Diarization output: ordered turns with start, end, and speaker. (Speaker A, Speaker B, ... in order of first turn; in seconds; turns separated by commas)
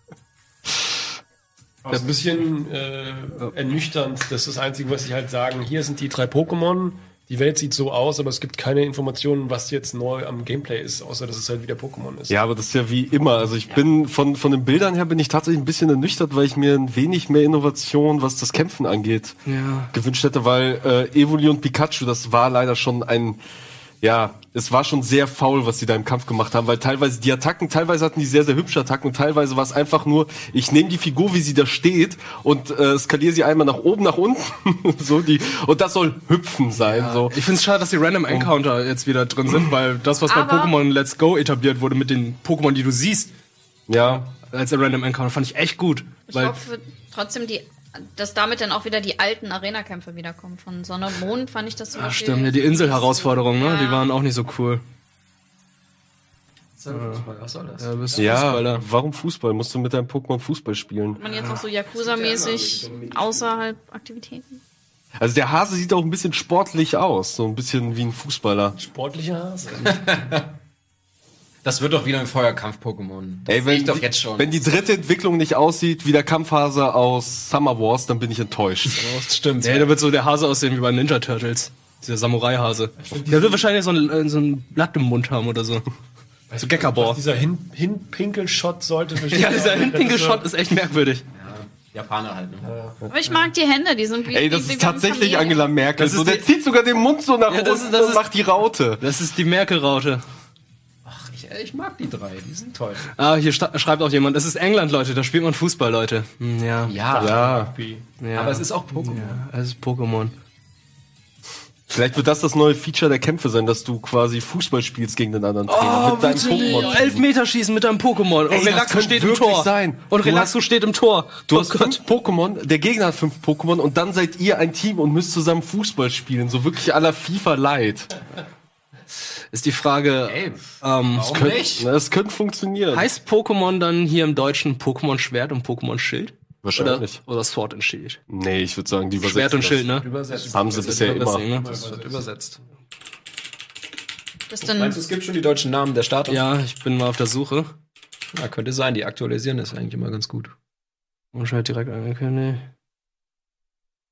Speaker A: 1.8-12.3, Speaker B: 12.3-19.4, Speaker C: 19.4-19.9, Speaker B: 19.9-23.4, Speaker B: 24.0-37.4, Speaker C: 36.8-43.3, Speaker B: 38.3-38.5, Speaker D: 40.2-40.8, Speaker B: 43.9-44.3, Speaker C: 44.5-46.5, Speaker D: 46.3-54.1, Speaker C: 51.9-54.8, Speaker E: 56.8-58.6, Speaker C: 56.9-57.2, Speaker C: 57.8-58.8, Speaker B: 58.1-61.2, Speaker D: 61.2-64.6, Speaker C: 61.2-61.6, Speaker E: 61.9-63.6, Speaker B: 65.2-68.8, Speaker A: 68.8-70.3, Speaker E: 69.7-70.4, Speaker E: 71.6-74.6, Speaker B: 73.5-79.1, Speaker E: 78.9-79.9, Speaker C: 79.6-85.8, Speaker A: 83.0-83.7, Speaker A: 86.5-90.5, Speaker C: 86.6-87.2, Speaker C: 89.3-91.2, Speaker E: 91.3-92.7, Speaker A: 92.6-93.0, Speaker D: 93.1-95.7, Speaker B: 94.3-99.0, Speaker C: 96.0-96.5, Speaker C: 97.5-98.2, Speaker C: 99.0-100.2, Speaker E: 101.0-103.1, Speaker C: 103.2-106.9, Speaker E: 106.8-107.5, Speaker A: 107.1-108.1, Speaker B: 107.2-107.7, Speaker C: 108.2-110.3, Speaker E: 108.3-109.4, Speaker B: 111.9-117.2, Speaker C: 115.7-122.0, Speaker D: 116.2-117.2, Speaker B: 118.5-120.5, Speaker B: 121.5-128.1, Speaker C: 129.5-131.6, Speaker E: 130.2-131.9, Speaker B: 131.3-133.1, Speaker C: 132.9-138.2, Speaker B: 136.6-137.2, Speaker B: 138.3-141.4, Speaker C: 139.2-140.1, Speaker E: 140.0-142.6, Speaker A: 140.3-142.2, Speaker C: 140.8-141.8, Speaker D: 144.5-145.0, Speaker E: 144.6-146.4, Speaker C: 146.3-147.7, Speaker E: 148.3-150.5, Speaker C: 151.3-152.6